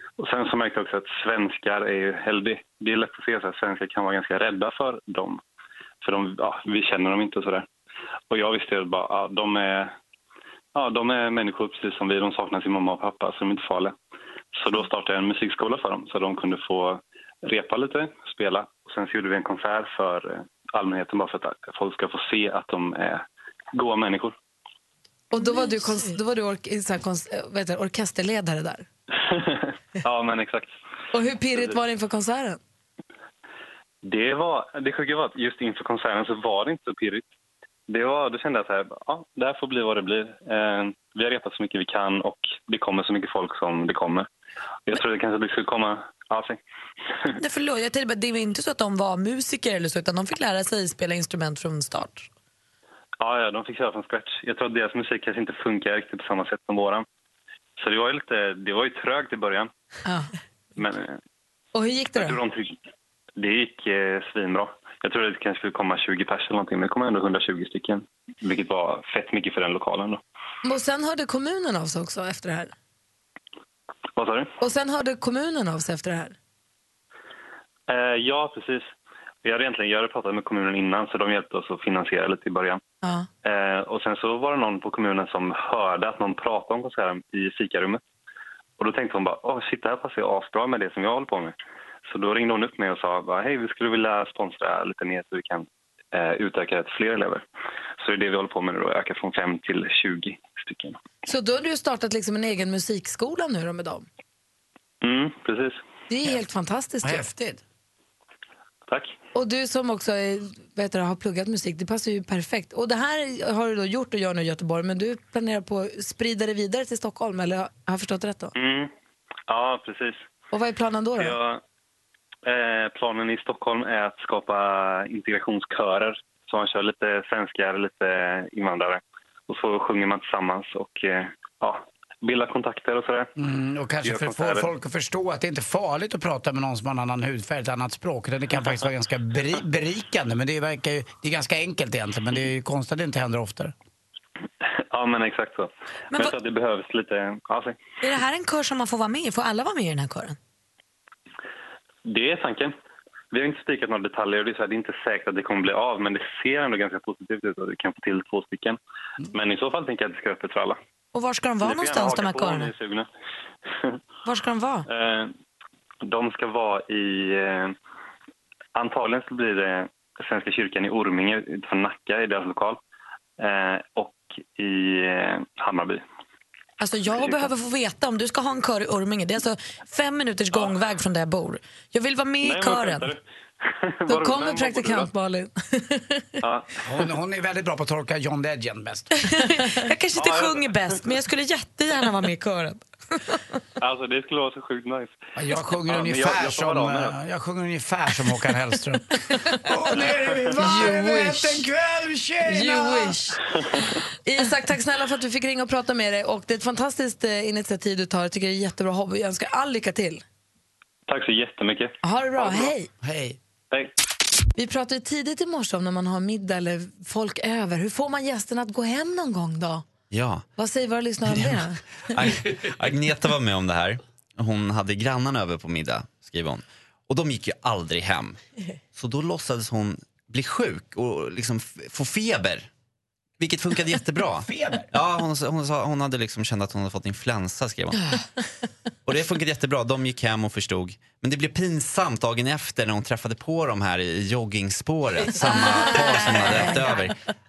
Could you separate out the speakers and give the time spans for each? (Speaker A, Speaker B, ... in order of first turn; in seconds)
Speaker A: 0.2-5.4, 6.0-7.7, 8.3-9.9, 10.8-13.9, 14.6-23.2, 23.8-24.3, 29.2-30.7, 34.0-37.3, 37.9-44.3, 44.9-46.6, 53.2-57.0, 57.8-59.7, 60.8-61.2, 62.2-62.8, 63.4-70.2, 74.2-74.5, 77.9-78.9, 79.4-82.8, 83.5-88.0, 88.8-91.5, 92.1-97.4, 98.0-101.0, 105.0-105.8, 108.9-109.2, 118.6-118.9, 119.5-120.3, 121.2-121.6, 122.5-133.3, 134.0-134.7, 144.9-147.8, 152.1-152.7, 153.3-158.8, 159.3-160.8, 161.6-163.1, 164.9-165.3, 166.0-167.8, 168.8-172.8, 173.4-176.0, 177.1-177.5, 182.4-185.1, 186.4-186.7, 190.2-191.0, 193.8-197.2, 199.9-200.6, 211.1-211.9
Speaker B: 25.3-28.9, 31.1-32.6, 60.0-60.3, 61.7-62.4, 70.6-72.7, 74.6-76.4, 83.0-83.3, 101.3-104.1, 106.1-107.3, 109.3-118.5, 120.5-121.4, 184.1-186.4, 200.6-201.7, 202.5-203.4, 204.2-210.2, 212.0-212.9, 214.6-219.8, 220.6-221.8, 246.3-246.7
Speaker C: 25.3-26.1, 47.4-52.3, 148.0-150.4, 161.1-162.7, 164.2-164.9, 176.8-183.1, 189.3-193.6, 238.0-238.2
Speaker D: 107.0-107.6, 133.4-143.7, 186.8-189.2, 195.3-203.2, 212.4-213.4, 234.4-234.9
Speaker E: 220.1-220.4, 222.1-228.4, 228.9-232.7, 233.4-238.2, 239.1-247.2